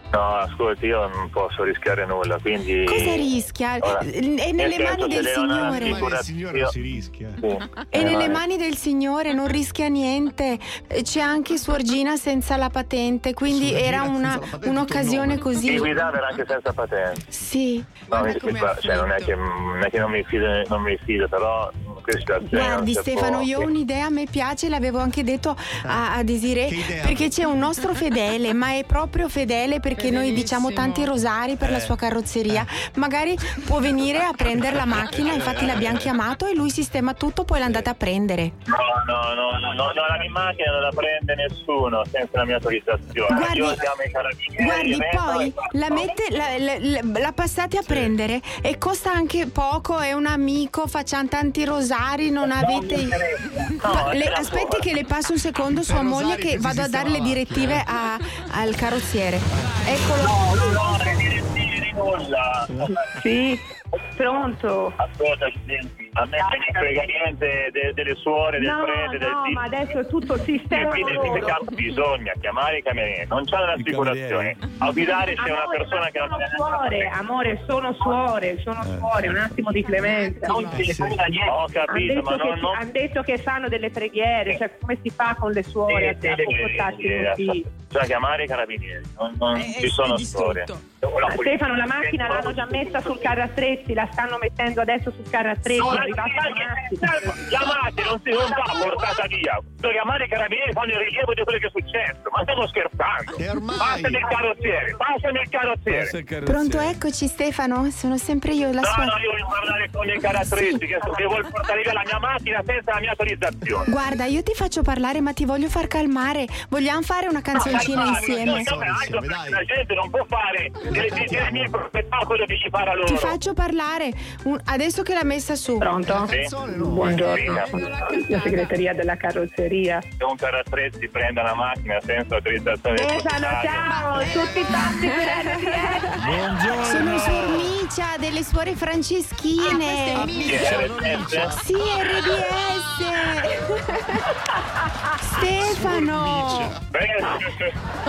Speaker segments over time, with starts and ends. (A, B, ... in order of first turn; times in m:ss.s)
0:00.1-0:06.7 A
0:02.8-0:06.1 B
0:05.5-0:07.4 C
0:07.4-0:08.4 A
0:07.9-0:15.9 B
0:08.0-0:08.3 C
0:13.4-0:15.6 C
0:15.6-0:17.2 A
0:17.3-0:19.3 B
0:18.1-0:23.7 A
0:22.5-0:38.5 B
0:26.6-0:27.5 C
0:31.6-0:31.9 D
0:35.0-0:36.0 D
0:38.7-0:46.1 A
0:43.3-0:43.8 B
0:44.6-0:53.2 B
0:47.8-0:48.2 D
0:52.4-0:54.9 A
0:53.8-1:00.7 B
0:55.6-0:57.9 C
1:00.2-1:03.0 A
1:03.1-1:04.9 E
1:05.0-1:09.7 A
1:06.4-1:06.8 E
1:08.6-1:11.6 E
1:10.7-1:17.1 A
1:13.8-1:14.7 D
1:15.3-1:21.1 E
1:18.8-1:19.6 D
1:19.9-1:20.9 B
1:20.4-1:22.8 A
1:20.8-1:21.3 C
1:21.8-1:27.7 E
1:25.9-1:33.4 A
1:29.5-1:30.8 B
1:31.3-1:37.1 E
1:35.7-1:46.1 A
1:38.5-1:39.2 E
1:43.4-1:44.2 C
1:45.9-1:47.0 D
1:46.4-1:49.1 B
1:48.8-1:53.9 A
1:50.5-1:50.8 B
1:53.9-1:58.7 B
1:57.5-2:03.4 A
1:57.7-1:59.6 C
2:00.9-2:01.7 C
2:03.0-2:06.1 B
2:05.8-2:10.1 E
2:06.1-2:07.4 C
2:06.3-2:07.9 A
2:07.5-2:08.7 B
2:10.2-2:14.4 A
2:12.9-2:16.2 E
2:13.8-2:16.1 B
2:16.2-2:17.7 D
2:16.8-2:20.8 B
2:19.8-2:21.6 C
2:20.3-2:21.6 A
2:21.5-2:23.8 B
2:25.2-2:26.7 B
2:25.6-2:26.8 C
2:26.9-2:27.8 A